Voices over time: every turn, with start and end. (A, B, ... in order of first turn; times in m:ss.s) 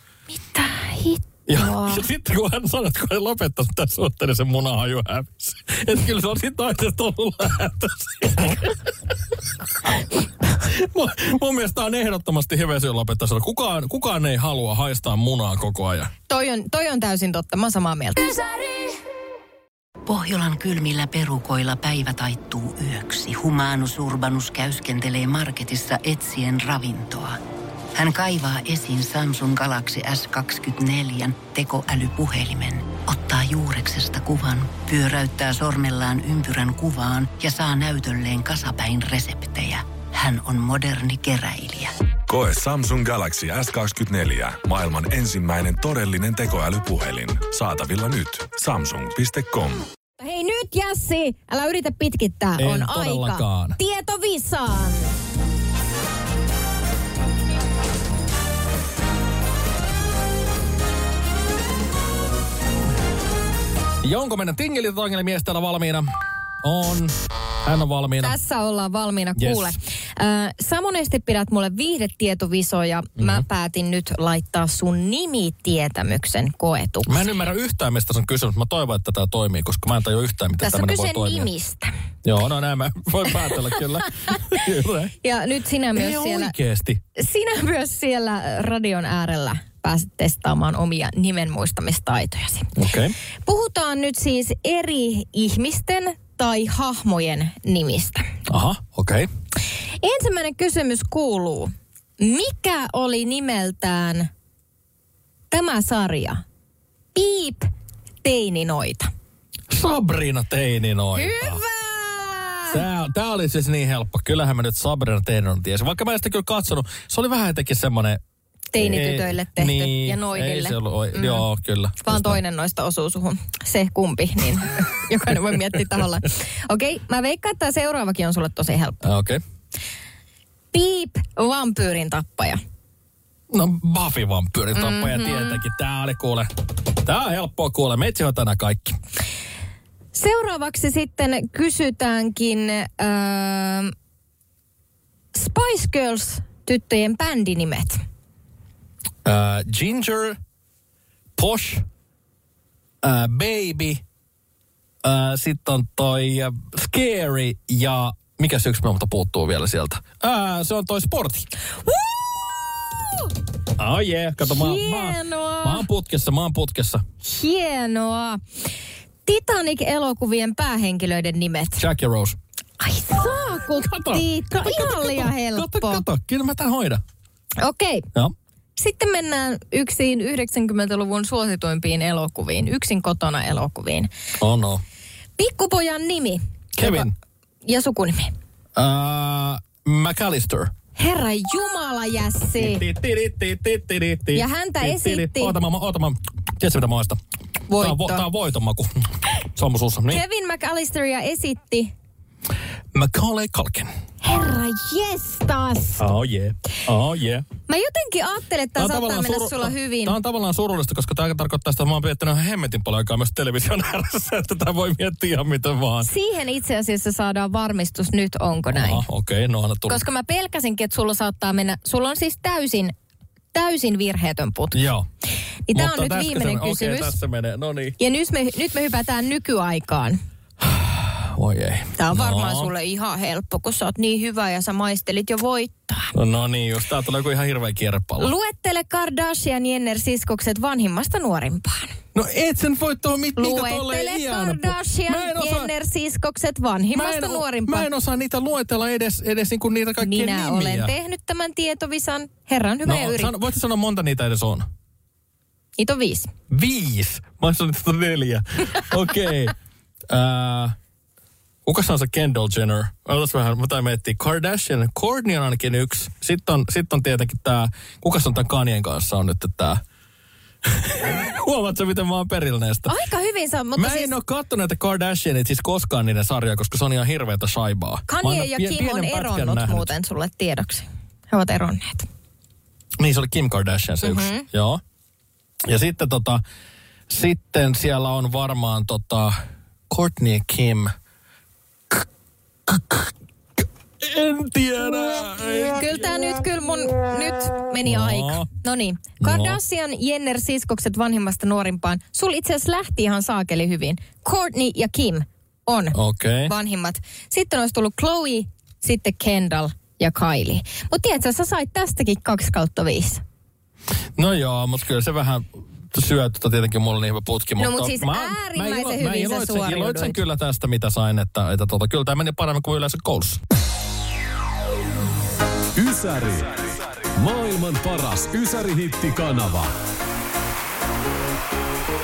0:00.3-0:02.0 A
0:01.5-0:08.8 B
0:10.5-0:16.1 B
0:16.3-0:18.4 A
0:20.1-0:25.3 A
0:21.2-0:23.4 C
0:24.6-0:27.3 C
0:25.8-0:27.2 A
0:27.9-0:41.8 C
0:28.1-0:41.9 A
0:42.3-0:49.8 D
0:50.2-0:55.2 A
0:52.6-0:53.8 B
1:04.0-1:06.1 B
1:06.6-1:08.4 B
1:08.2-1:17.2 A
1:09.4-1:09.8 B
1:13.2-1:13.4 B
1:17.0-1:21.5 B
1:20.6-1:21.9 A
1:22.2-1:25.1 B
1:25.2-1:26.5 A
1:25.9-1:27.0 B
1:27.3-1:32.7 A
1:32.8-1:33.1 B
1:33.4-1:38.2 A
1:38.5-1:39.3 B
1:40.0-1:41.7 A
1:42.2-1:44.3 A
1:45.5-1:46.4 A
1:47.1-1:47.7 A
1:48.2-1:49.1 A
1:49.7-1:51.6 B
1:51.1-1:52.8 A
1:52.7-1:58.2 B
1:58.7-2:01.4 A
1:58.7-2:02.4 B
2:02.0-2:09.0 A
2:09.0-2:09.4 B
2:10.7-2:12.6 A
2:13.5-2:19.0 B
2:14.8-2:15.6 A
2:20.1-2:23.9 A
2:25.3-2:28.0 A
2:29.2-2:30.4 B
2:31.4-2:31.8 B
2:33.0-2:34.0 B
2:35.0-2:41.5 B
2:41.9-2:43.0 A
2:43.8-2:47.0 B
2:44.5-2:45.8 A
2:47.2-2:48.4 A
2:49.2-2:51.8 A
2:51.8-2:52.4 B
2:52.8-2:56.0 A
2:53.6-2:57.0 B
2:57.6-2:58.1 A
2:58.8-3:04.1 A
3:04.4-3:04.8 B
3:05.4-3:07.1 A
3:06.8-3:07.1 B
3:07.6-3:08.3 A
3:08.8-3:10.7 B
3:11.0-3:12.8 A
3:12.6-3:17.2 B
3:14.3-3:15.6 A
3:17.7-3:18.2 A
3:17.8-3:20.2 B
3:20.1-3:21.9 A
3:22.9-3:23.9 B
3:24.2-3:26.0 A
3:26.0-3:27.4 B
3:27.7-3:30.1 A
3:28.8-3:36.1 B
3:36.0-3:39.0 A
3:38.7-3:40.0 B
3:39.9-3:42.9 A
3:43.5-3:44.7 A
3:44.7-3:45.0 B
3:45.7-3:47.1 A
3:45.7-3:48.0 B
3:48.0-3:50.2 A
3:50.6-3:52.7 B
3:52.0-3:56.1 A
3:56.1-3:58.3 B
3:58.2-4:02.0 A
4:02.1-4:05.7 B
4:03.4-4:07.8 A
4:06.9-4:10.9 B
4:10.0-4:13.3 A
4:12.8-4:14.6 B
4:15.8-4:16.3 A
4:16.5-4:19.5 B
4:20.1-4:20.7 B
4:21.6-4:29.8 B
4:30.6-4:33.0 B
4:32.9-4:34.1 A
4:33.8-4:39.9 B
4:38.1-4:42.0 A
4:43.0-4:44.8 B
4:44.0-4:44.4 A
4:45.6-4:46.4 B
4:47.1-4:49.4 B
4:49.9-4:50.9 B
4:52.7-4:53.1 B
4:54.0-4:56.1 B
4:55.8-5:05.9 A
4:57.8-4:58.5 B
4:59.2-4:59.6 B
5:05.9-5:06.5 B
5:06.6-5:13.2 A
5:14.2-5:23.4 B
5:17.6-5:20.2 A
5:25.7-5:29.7 E